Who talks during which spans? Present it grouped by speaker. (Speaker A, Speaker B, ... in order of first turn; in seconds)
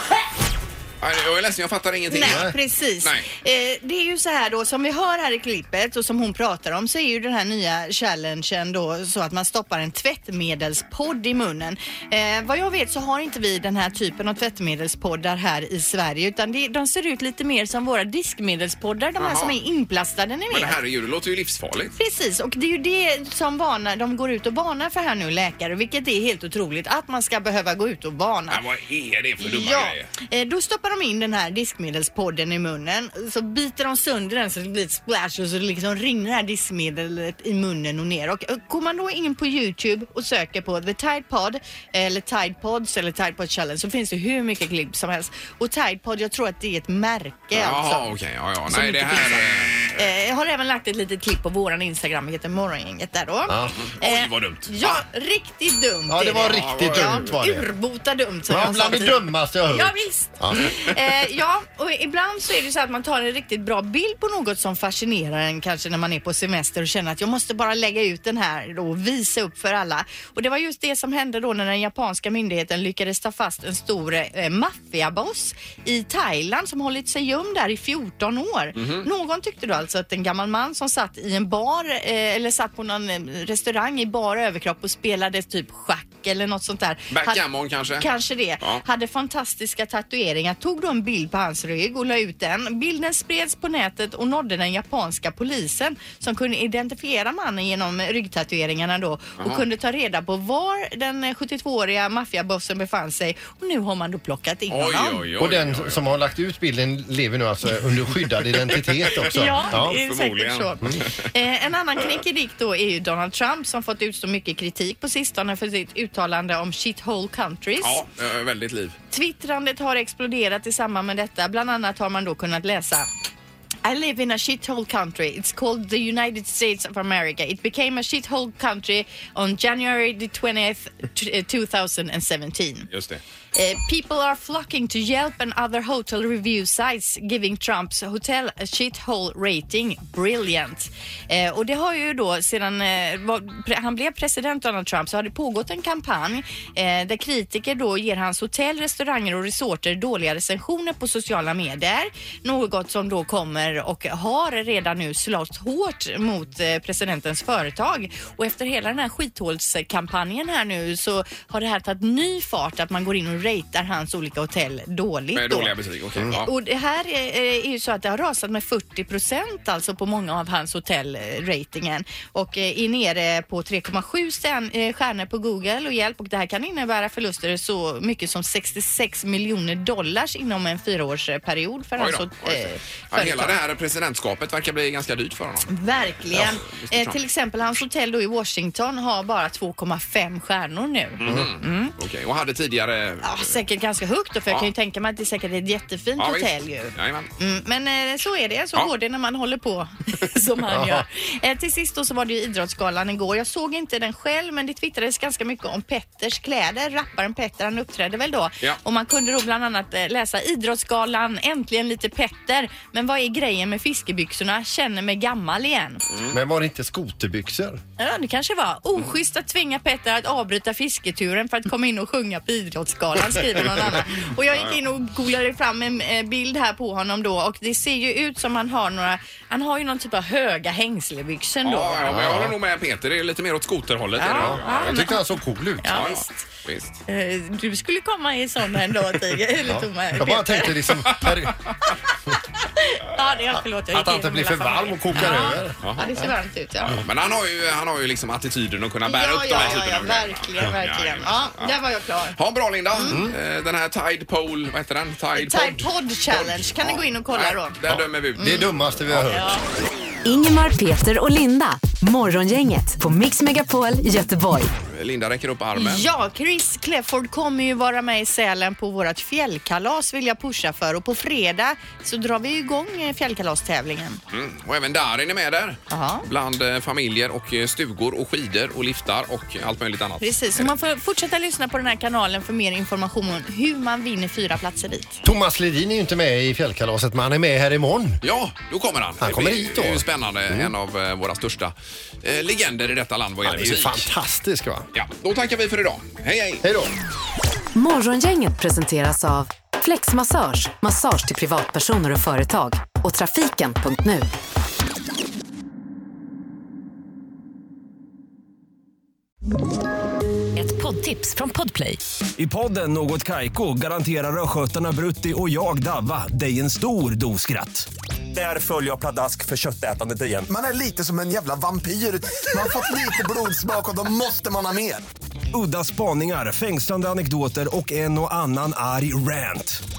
Speaker A: 1.0-3.3, 19.2-19.6, 20.5-21.9, 28.5-30.1, 47.5-50.0, 53.9-55.0, 56.5-57.3, 78.7-79.1, 87.1-88.1, 104.7-106.0, 109.1-111.2, 117.8-119.0, 132.9-133.2, 165.3-166.5, 182.0-185.7, 186.3-187.2, 191.2-193.6, 196.2-197.3, 224.5-224.8, 231.6-235.0, 235.9-237.0, 241.1-241.3, 245.8-246.1, 246.9-251.8, 252.3-259.4, 264.9-266.1, 274.3-280.7, 288.2-294.1, 294.9-296.6
Speaker B: 2.1-20.8, 21.9-28.6, 29.4-48.1, 48.7-87.4, 88.0-105.2, 109.3-118.0, 119.1-123.1, 123.8-132.9, 133.5-165.7, 166.4-183.6, 185.7-191.9, 193.2-216.0, 218.0-232.1, 234.2-235.2, 235.8-236.4, 237.1-240.8, 242.6-247.0, 249.1-252.4, 252.9-253.2, 255.3-257.7, 258.4-258.6, 259.3-259.6, 265.7-274.2, 275.9-276.2, 280.2-285.2
Speaker C: 2.2-2.5, 53.5-53.8, 56.1-57.7, 58.5-60.7, 105.4-110.0, 191.2-191.5, 200.7-201.1, 216.3-217.8, 232.1-232.5, 234.3-236.1, 239.7-241.6, 243.9-246.2, 253.1-253.3, 257.9-259.5, 285.2-288.2, 289.2-290.7, 293.4-294.9, 296.6-296.9
Speaker D: 260.2-264.7, 297.7-304.3, 310.6-312.0
Speaker E: 312.4-320.5, 325.5-329.8
Speaker F: 320.5-325.0